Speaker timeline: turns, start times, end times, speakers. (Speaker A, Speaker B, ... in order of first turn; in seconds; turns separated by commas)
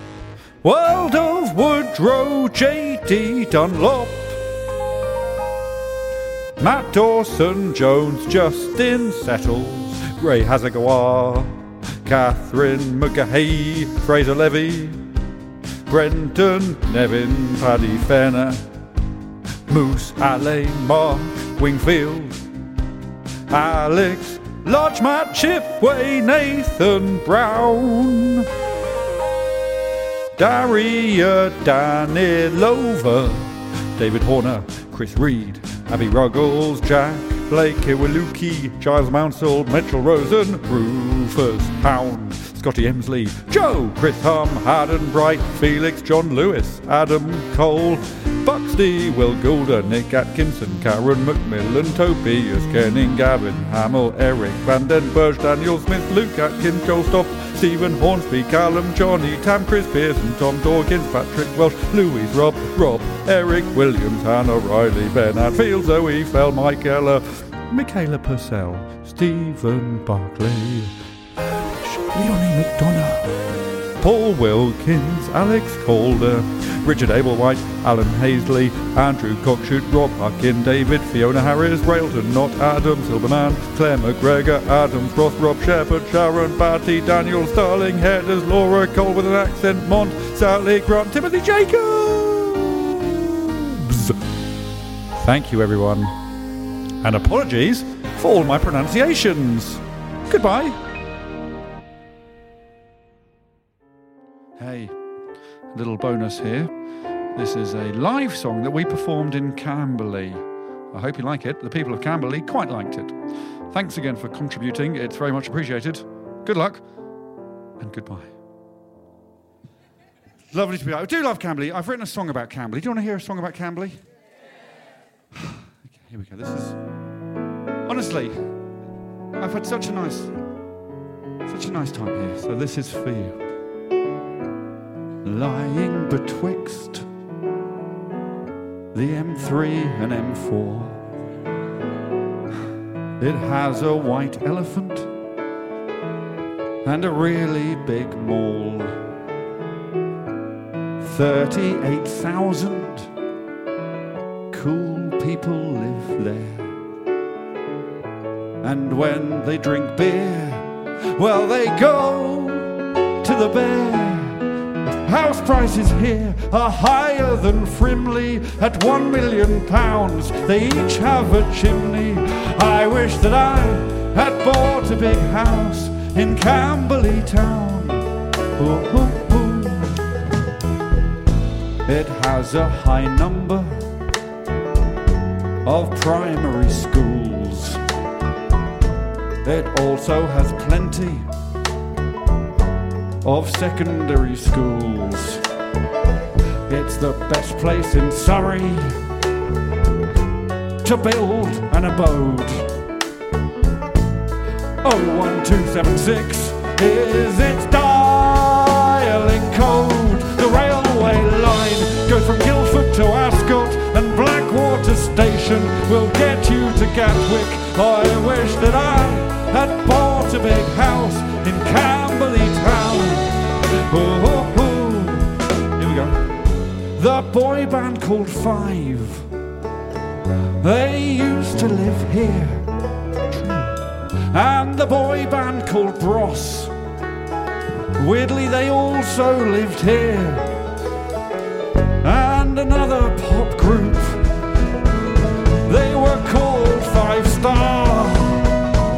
Speaker A: 0.6-4.4, Speaker A: 6.6-15.0, Speaker A: 15.9-18.6, Speaker A: 19.7-22.4, Speaker A: 23.5-28.5, Speaker A: 30.4-73.4, Speaker A: 74.0-94.2, Speaker A: 95.1-96.1, Speaker A: 97.0-100.8, Speaker A: 104.6-104.9, Speaker A: 105.7-106.7, Speaker A: 107.3-113.2, Speaker A: 113.7-116.8, Speaker A: 117.8-118.3, Speaker A: 120.5-124.0, Speaker A: 125.3-126.8, Speaker A: 127.8-128.4, Speaker A: 129.4-130.3, Speaker A: 131.5-133.4, Speaker A: 135.2-137.1, Speaker A: 138.9-141.0, Speaker A: 143.2-145.1, Speaker A: 146.8-149.0, Speaker A: 151.0-153.1, Speaker A: 154.5-156.8, Speaker A: 158.6-164.5, Speaker A: 165.0-180.1, Speaker A: 181.8-183.9, Speaker A: 185.6-187.8, Speaker A: 189.4-191.3, Speaker A: 193.2-195.4, Speaker A: 196.7-199.0, Speaker A: 200.8-202.7, Speaker A: 204.8-226.3, Speaker A: 226.9-229.3, Speaker A: 230.6-232.7, Speaker A: 233.3-233.8, Speaker A: 234.3-236.7, Speaker A: 237.9-240.6, Speaker A: 242.0-244.3, Speaker A: 245.6-248.5